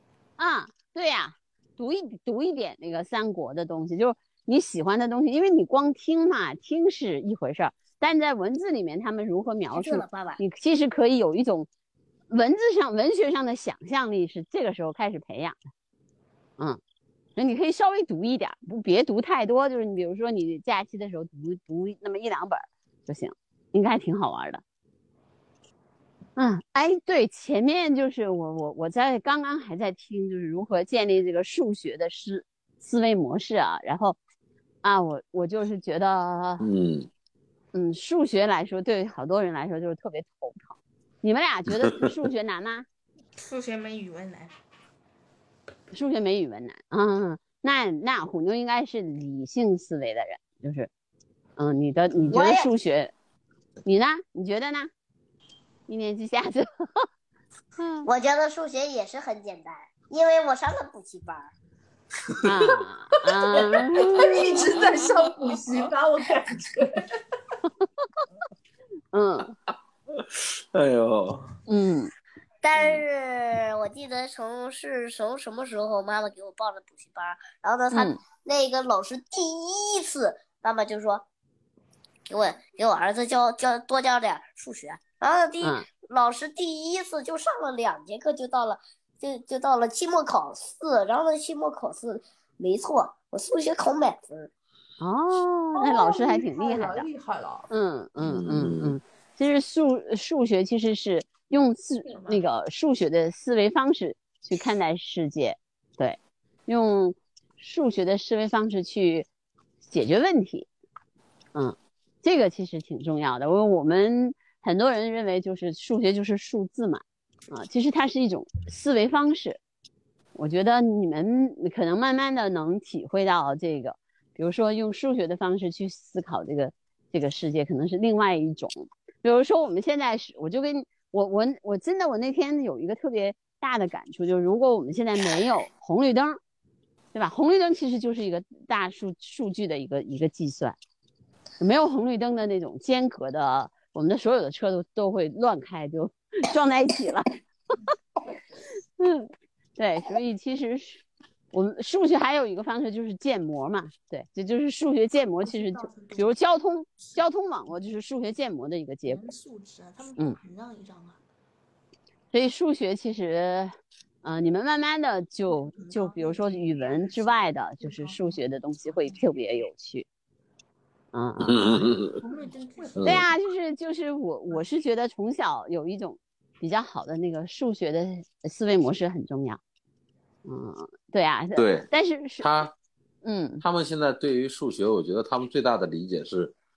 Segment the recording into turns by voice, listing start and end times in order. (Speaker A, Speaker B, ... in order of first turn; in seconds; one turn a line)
Speaker A: 0.4-11.7
Speaker B: 9.7-10.4
Speaker A: 12.3-15.6
Speaker A: 17.4-24.6
Speaker A: 26.4-34.2
Speaker A: 34.8-36.6
Speaker C: 36.6-37.1
Speaker A: 37.7-42.9
Speaker C: 41.7-42.0
Speaker D: 43.4-44.5
Speaker A: 45.9-50.9
Speaker A: 51.6-53.1
Speaker B: 52.3-52.7
Speaker A: 53.8-54.9
Speaker A: 55.9-57.0
Speaker A: 57.8-58.1
Speaker B: 58.0-61.5
Speaker A: 62.4-64.8
Speaker E: 63.5-67.0
Speaker A: 69.1-69.5
Speaker C: 70.1-71.5
Speaker A: 71.7-72.1
Speaker B: 72.6-81.2
Speaker C: 72.8-73.0
Speaker A: 77.9-78.2
Speaker B: 82.3-94.5
Speaker A: 85.6-85.8
Speaker A: 95.0-97.1
Speaker E: 95.8-97.7
Speaker A: 97.7-109.3
Speaker C: 98.2-99.0
Speaker D: 102.1-102.4
Speaker A: 109.8-110.7
Speaker A: 111.5-119.6
Speaker A: 120.3-136.4
Speaker A: 137.1-140.8
Speaker A: 141.6-147.3
Speaker A: 149.0-159.2
Speaker D: 155.3-156.3
Speaker D: 159.1-161.2
Speaker A: 162.3-170.1
Speaker D: 165.5-167.2
Speaker D: 167.8-169.2
Speaker A: 171.1-171.8
Speaker C: 171.4-172.2
Speaker D: 172.2-173.3
Speaker C: 172.9-173.3
Speaker A: 173.0-179.6
Speaker A: 180.4-182.5
Speaker C: 181.6-181.9
Speaker C: 182.4-182.7
Speaker A: 183.2-183.6
Speaker C: 183.6-186.5